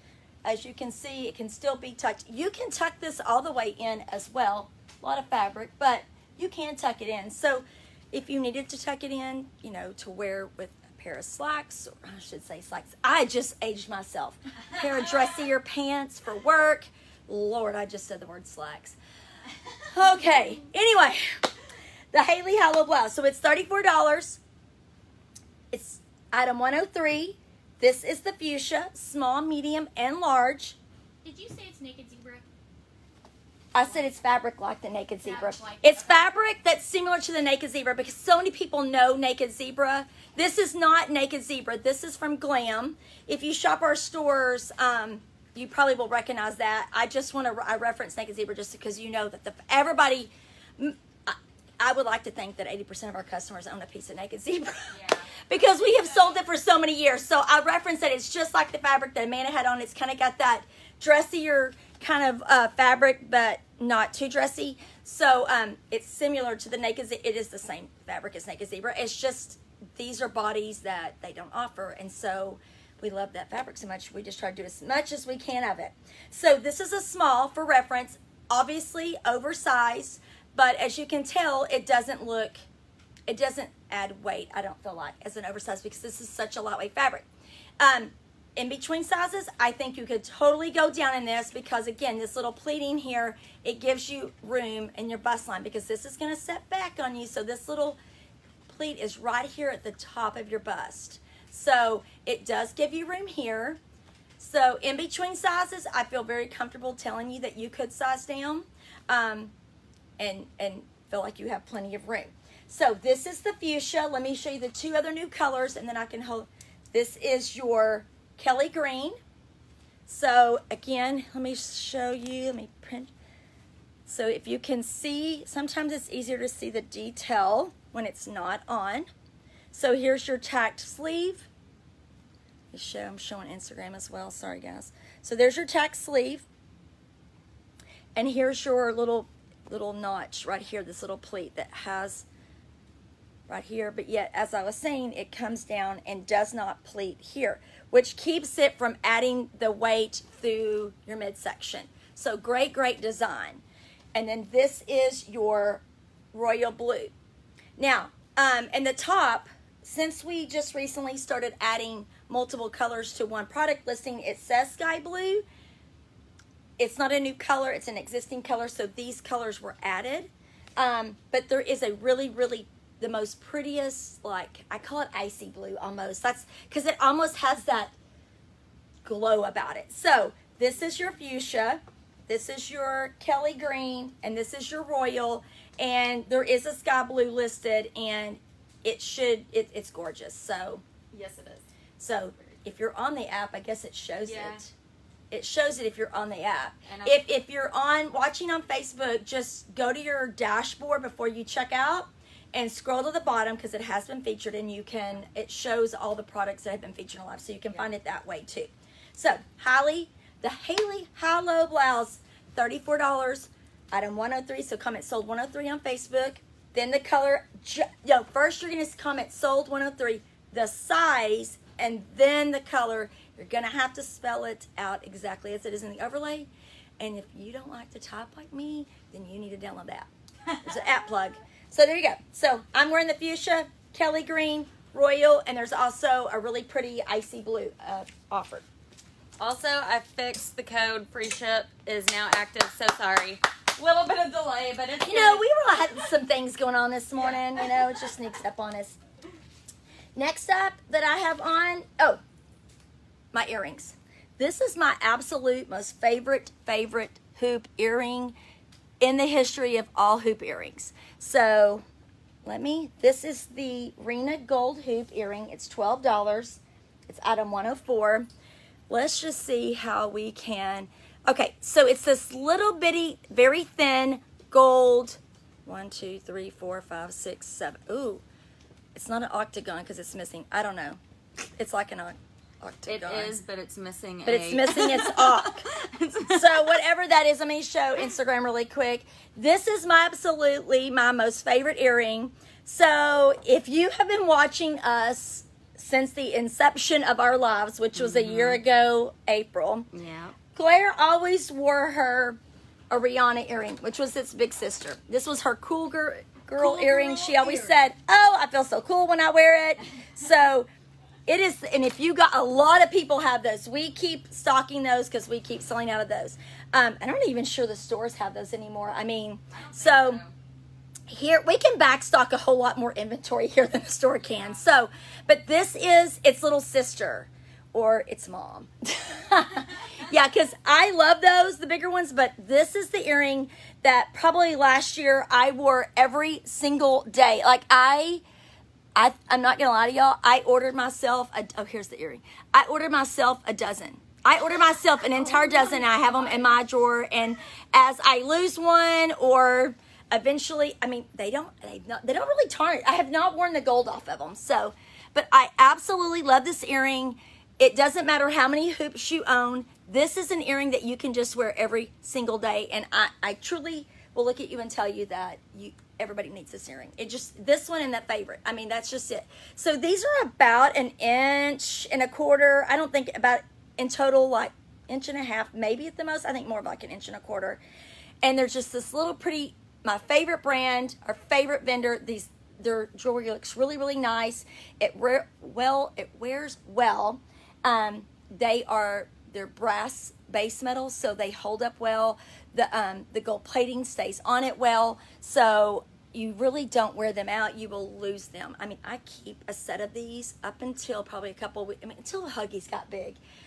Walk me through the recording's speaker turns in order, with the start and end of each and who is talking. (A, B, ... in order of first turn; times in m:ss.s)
0:00.4-0:19.0 A
0:19.9-0:21.4 A
0:22.1-0:24.4 A
0:25.7-0:30.8 A
0:31.2-0:32.4 B
0:33.7-1:22.6 A
0:35.2-0:36.2 B
0:54.9-0:55.3 C
1:23.3-1:27.3 A
1:27.8-1:38.0 A
1:38.6-1:43.8 A
1:44.4-1:49.5 A
1:50.2-1:59.2 A
2:00.1-2:03.1 A
2:04.1-2:09.1 A
2:09.7-2:11.5 A
2:12.7-2:16.4 A
2:18.1-2:22.2 A
2:23.5-2:33.6 A
2:34.1-2:37.1 A
2:37.8-2:45.4 A
2:46.8-2:57.9 A
2:59.0-3:10.8 A
3:11.1-3:11.7 C
3:12.0-3:14.7 A
3:14.2-3:14.6 C
3:15.3-3:50.1 A
3:16.8-3:17.2 C
3:50.6-3:58.6 A
3:59.4-4:05.4 C
4:05.0-4:09.0 A
4:10.2-4:12.2 A
4:13.3-4:18.3 A
4:19.0-4:21.8 A
4:22.4-4:28.3 A
4:28.9-4:38.2 A
4:38.9-4:41.0 A
4:41.6-4:43.4 A
4:42.8-4:46.7 C
4:44.2-4:45.6 A
4:46.2-4:59.9 A
4:57.9-4:58.6 C
4:59.9-5:00.3 C
5:00.5-5:10.7 A
5:06.6-5:07.6 C
5:06.9-5:07.6 B
5:11.3-5:20.2 A
5:19.5-5:20.3 C
5:21.1-5:38.2 A
5:38.9-6:17.6 A
6:18.2-6:43.2 A